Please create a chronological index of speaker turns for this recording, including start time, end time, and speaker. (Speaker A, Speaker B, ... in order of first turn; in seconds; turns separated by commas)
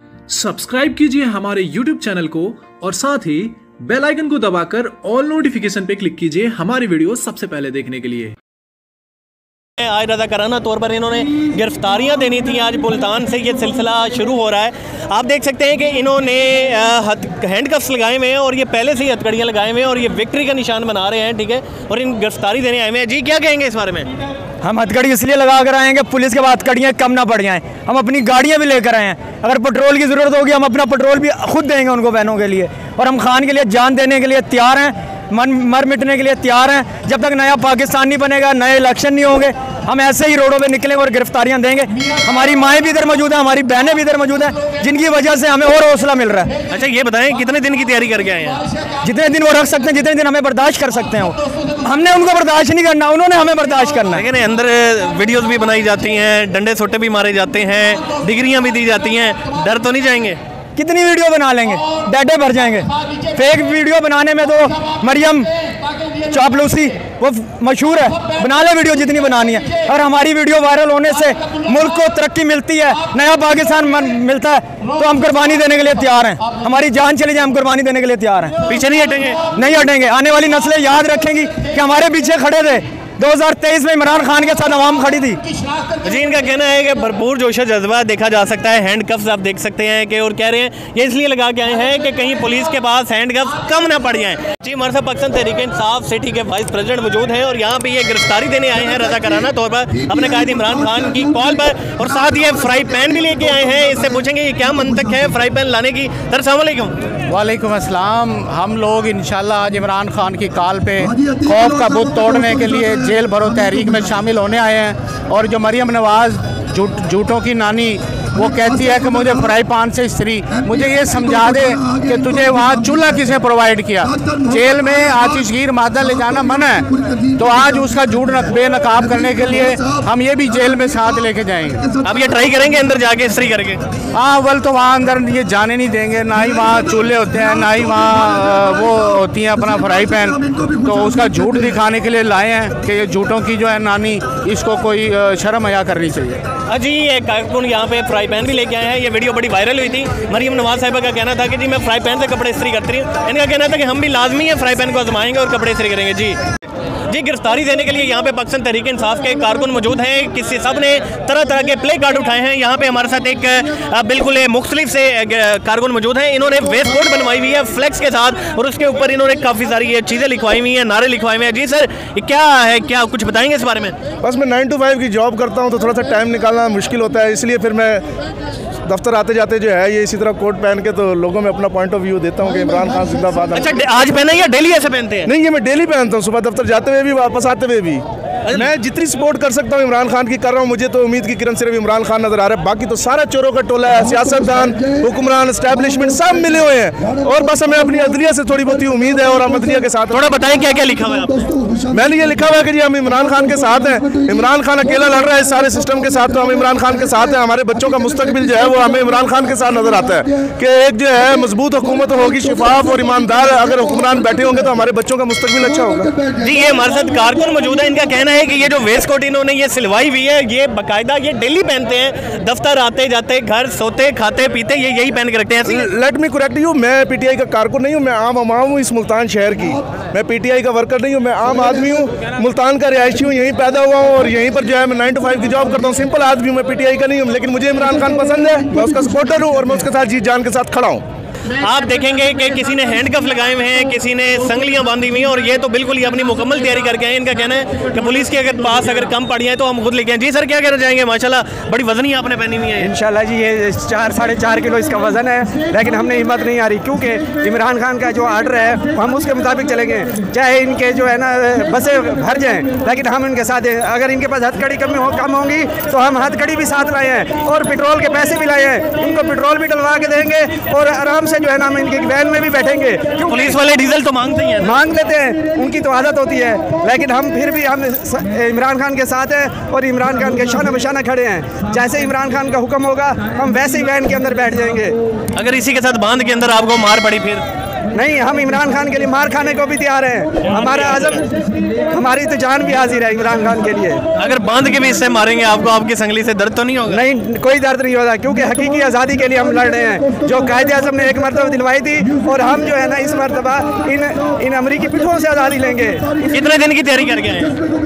Speaker A: 0.3-8.3, Speaker B: 9.8-24.1, Speaker C: 24.6-46.5, Speaker B: 46.7-48.6, Speaker C: 49.0-54.2, Speaker B: 54.1-60.4, Speaker C: 60.8-65.5, Speaker C: 66.3-78.5, Speaker B: 78.7-79.4, Speaker C: 79.5-85.4, Speaker B: 86.0-107.0, Speaker D: 107.3-131.8, Speaker B: 132.0-133.8, Speaker D: 134.2-146.4, Speaker B: 146.7-156.4, Speaker B: 157.1-173.9, Speaker E: 174.2-178.0, Speaker E: 178.9-183.7, Speaker B: 183.5-185.3, Speaker E: 185.3-200.2, Speaker B: 200.1-201.5, Speaker E: 201.9-216.1, Speaker B: 216.4-225.8, Speaker E: 225.7-241.0, Speaker B: 241.6-252.9, Speaker F: 252.8-273.5, Speaker B: 273.2-274.7, Speaker F: 274.6-285.0, Speaker B: 285.4-287.4, Speaker F: 287.9-294.0, Speaker B: 290.7-291.2, Speaker B: 294.2-297.0, Speaker F: 296.9-306.0, Speaker B: 306.3-307.6